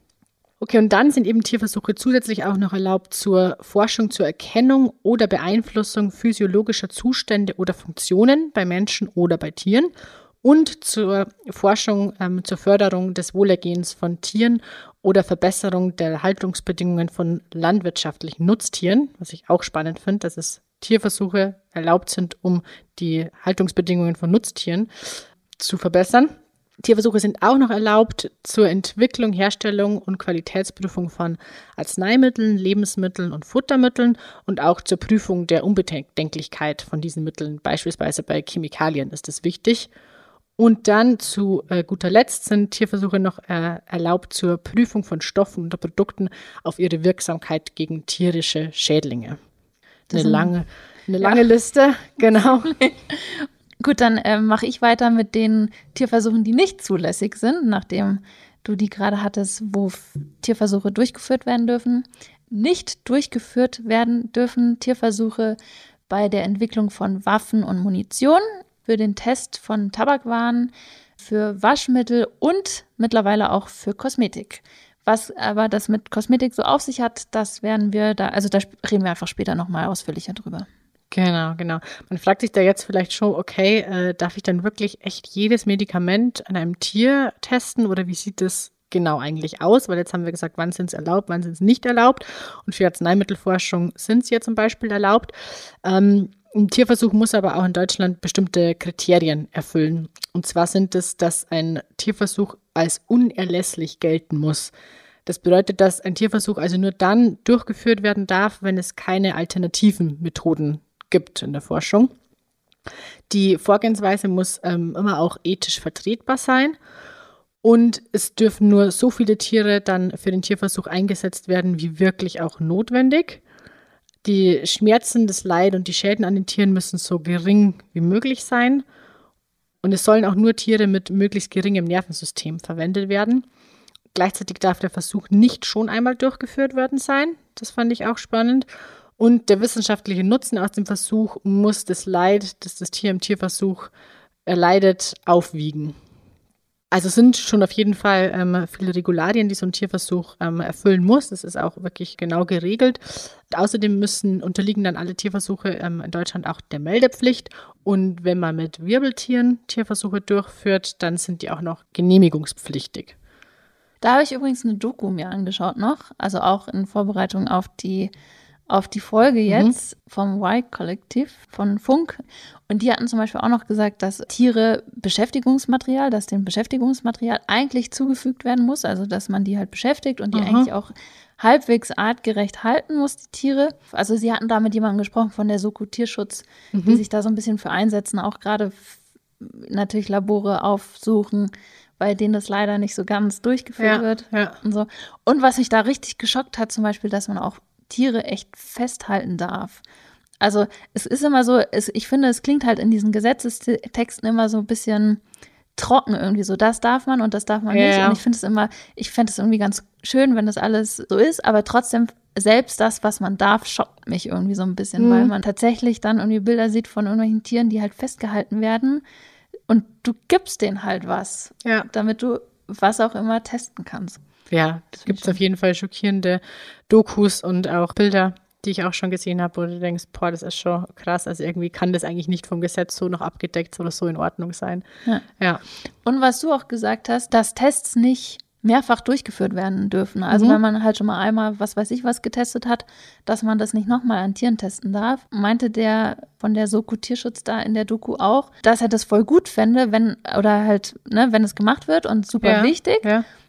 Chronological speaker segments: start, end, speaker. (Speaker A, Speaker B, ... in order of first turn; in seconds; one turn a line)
Speaker A: 0.6-9.9
Speaker A: 10.4-39.9
Speaker A: 40.6-49.4
Speaker B: 50.1-50.5
Speaker A: 50.1-52.8
Speaker B: 52.8-65.6
Speaker B: 66.1-80.7
Speaker A: 81.1-104.7
Speaker A: 105.2-112.1
Speaker A: 113.3-116.8
Speaker A: 117.6-123.4
Speaker A: 124.2-128.8
Speaker A: 129.8-133.4
Speaker A: 134.1-138.7
Speaker A: 139.2-143.9
Speaker A: 144.4-145.9
Speaker A: 146.9-163.1
Speaker B: 164.0-168.1
Speaker B: 168.7-172.2
Speaker A: 169.5-169.7
Speaker B: 172.7-199.8
Speaker A: 180.3-180.7
Speaker A: 186.7-187.0
Speaker A: 193.8-194.6
Speaker B: 200.4-205.2
Speaker B: 205.8-219.0
Speaker A: 207.7-208.2
Speaker A: 215.0-215.3
Speaker B: 219.7-224.2
Speaker A: 224.5-234.8
Speaker B: 225.0-225.3
Speaker B: 236.0-253.1
Speaker A: 240.3-240.6
Speaker A: 252.4-253.2